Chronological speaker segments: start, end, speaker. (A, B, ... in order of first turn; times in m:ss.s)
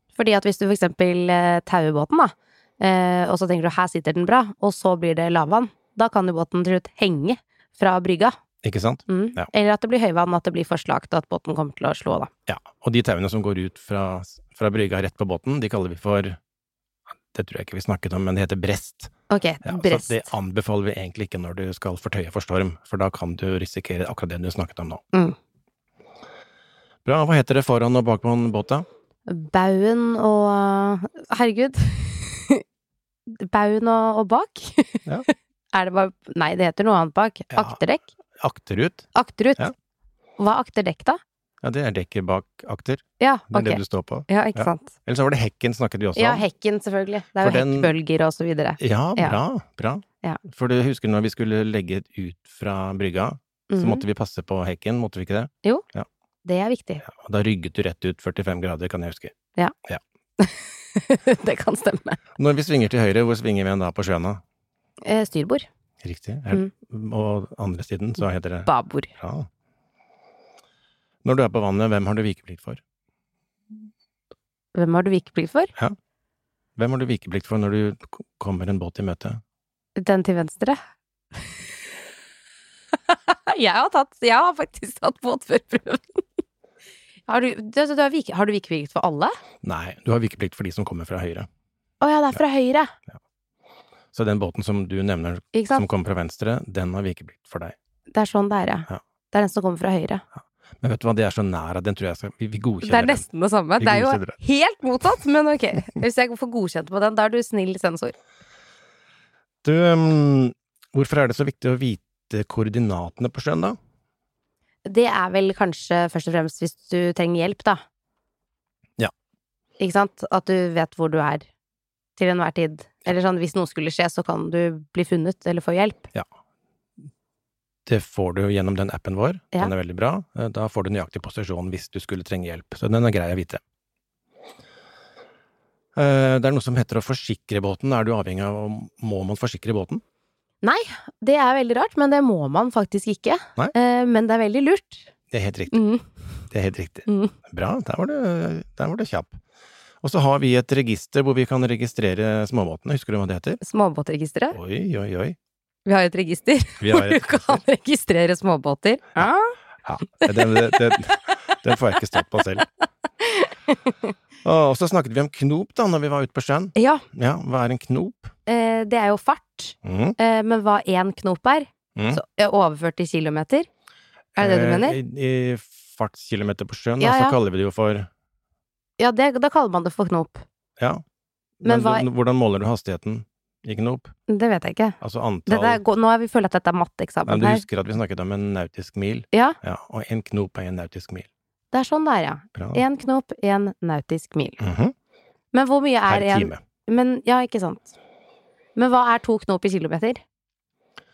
0:00.2-0:08.4 A
0:08.6-0:09.5 B
0:09.1-0:12.3 A
0:12.5-0:16.4 B
0:17.3-0:19.1 B
0:19.3-0:20.3 A
0:19.6-0:25.0 B
0:27.0-0:28.9 B
0:29.3-0:32.6 A
0:33.3-0:38.1 A
0:38.4-0:39.7 B
0:39.1-0:39.7 A
0:40.4-0:41.2 A
0:41.6-0:46.4 B
0:43.2-0:44.9 A
0:46.2-0:49.4 A
0:47.4-0:47.9 B
0:48.8-0:56.1 B
0:53.7-0:54.0 A
0:56.4-0:57.0 A
0:57.0-0:59.3 B
1:00.4-1:02.2 A
1:02.4-1:04.4 B
1:05.0-1:05.7 A
1:06.0-1:09.5 B
1:08.7-1:09.1 A
1:11.2-1:12.8 B
1:14.8-1:15.7 A
1:16.8-1:19.4 B
1:20.0-1:20.8 A
1:23.1-1:26.2 A
1:27.3-1:29.4 A
1:29.6-1:31.5 B
1:32.0-1:32.9 A
1:34.1-1:37.8 B
1:35.5-1:35.8 A
1:38.1-1:40.2 A
1:40.8-1:43.3 B
1:42.8-1:48.1 A
1:43.8-1:44.4 B
1:49.6-1:53.8 B
1:54.9-1:57.8 A
1:59.8-2:01.5 A
2:02.2-2:06.1 A
2:07.9-2:13.6 B
2:16.0-2:20.0 B
2:20.6-2:25.1 A
2:25.3-2:25.8 B
2:25.7-2:26.1 A
2:26.5-2:29.4 B
2:27.1-2:27.3 A
2:30.0-2:33.6 B
2:33.6-2:34.6 A
2:34.5-2:35.4 B
2:35.9-2:39.6 A
2:36.8-2:37.6 B
2:39.8-2:42.7 B
2:40.2-2:40.9 A
2:43.2-2:44.0 A
2:44.4-2:48.3 B
2:46.8-2:47.0 A
2:48.5-2:53.7 A
2:49.8-2:50.2 B
2:52.0-2:52.2 B
2:54.4-2:55.0 A
2:54.4-2:58.1 B
2:57.0-2:57.4 A
2:59.0-3:00.4 A
3:01.6-3:04.1 B
3:01.6-3:02.1 A
3:04.3-3:07.6 A
3:05.0-3:05.8 B
3:07.3-3:11.3 B
3:11.7-3:14.6 A
3:12.6-3:12.8 B
3:14.6-3:14.9 B
3:15.5-3:18.0 A
3:16.1-3:16.6 B
3:18.8-3:20.2 A